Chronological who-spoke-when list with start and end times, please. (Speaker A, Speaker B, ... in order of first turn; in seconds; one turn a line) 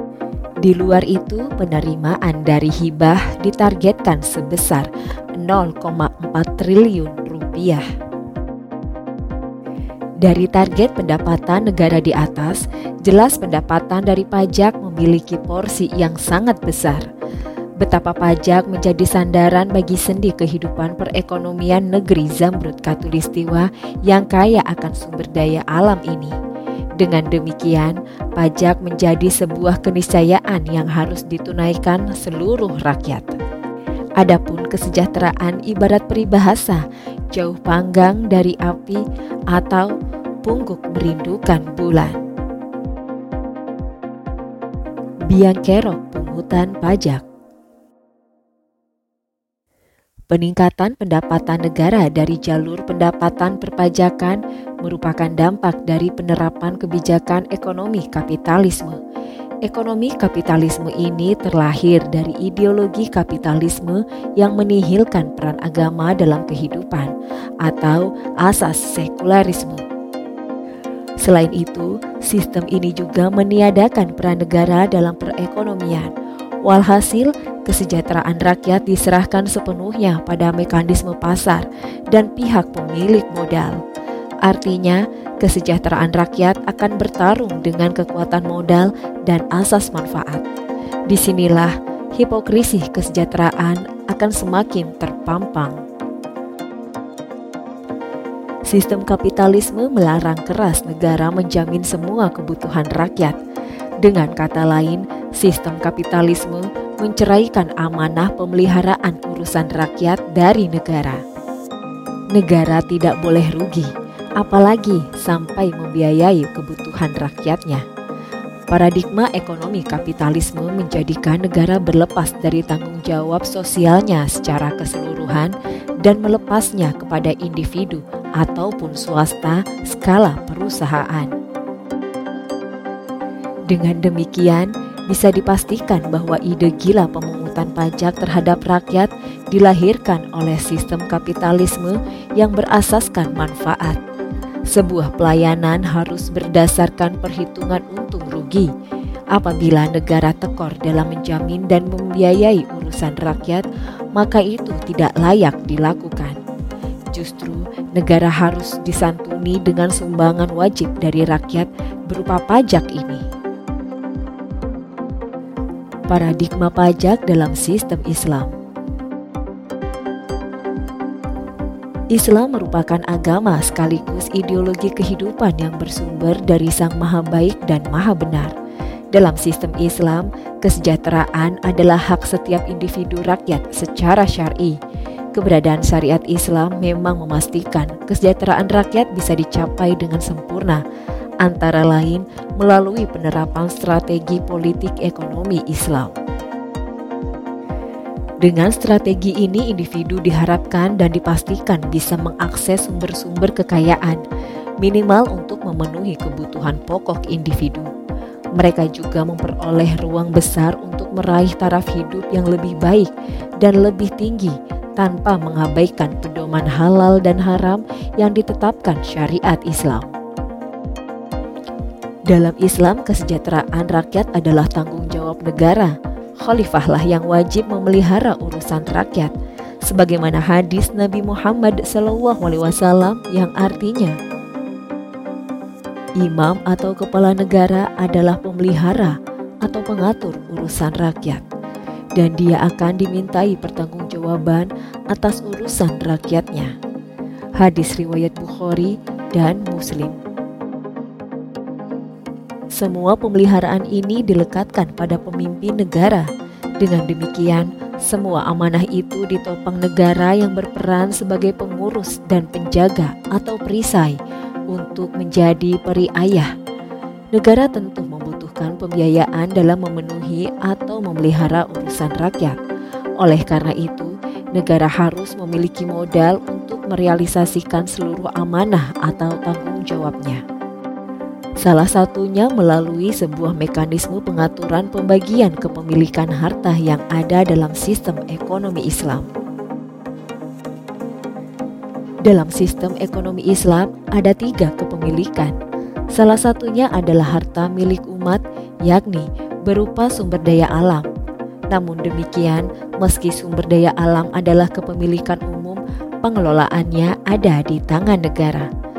Speaker A: 0.6-7.8
Speaker A: 10.2-17.1
Speaker A: 17.8-26.3
Speaker A: 27.0-33.4
Speaker A: 34.2-39.9
Speaker A: 40.4-42.2
Speaker A: 45.3-47.2
Speaker A: 50.3-59.0
Speaker A: 59.6-69.8
Speaker A: 71.2-83.8
Speaker A: 84.4-90.4
Speaker A: 91.1-95.8
Speaker A: 98.7-103.4
Speaker A: 104.0-111.2
Speaker A: 112.3-117.8
Speaker A: 118.7-131.3
Speaker A: 133.7-144.0
Speaker A: 144.7-148.7
Speaker A: 149.3-156.4
Speaker A: 157.1-163.2
Speaker A: 166.1-168.5
Speaker A: 172.1-178.5
Speaker A: 179.1-184.8
Speaker A: 185.3-190.8
Speaker A: 191.4-196.2
Speaker A: 198.4-204.2
Speaker A: 204.8-207.9
Speaker A: 208.5-220.1
Speaker A: 222.3-234.2
Speaker A: 236.2-241.4
Speaker A: 242.1-246.7
Speaker A: 247.6-250.2
Speaker A: 252.7-256.3
Speaker A: 256.8-264.2
Speaker A: 264.7-266.5
Speaker A: 267.3-272.6
Speaker A: 273.2-280.4
Speaker A: 281.6-289.3
Speaker A: 292.2-295.6
Speaker A: 296.1-301.1
Speaker A: 301.7-308.7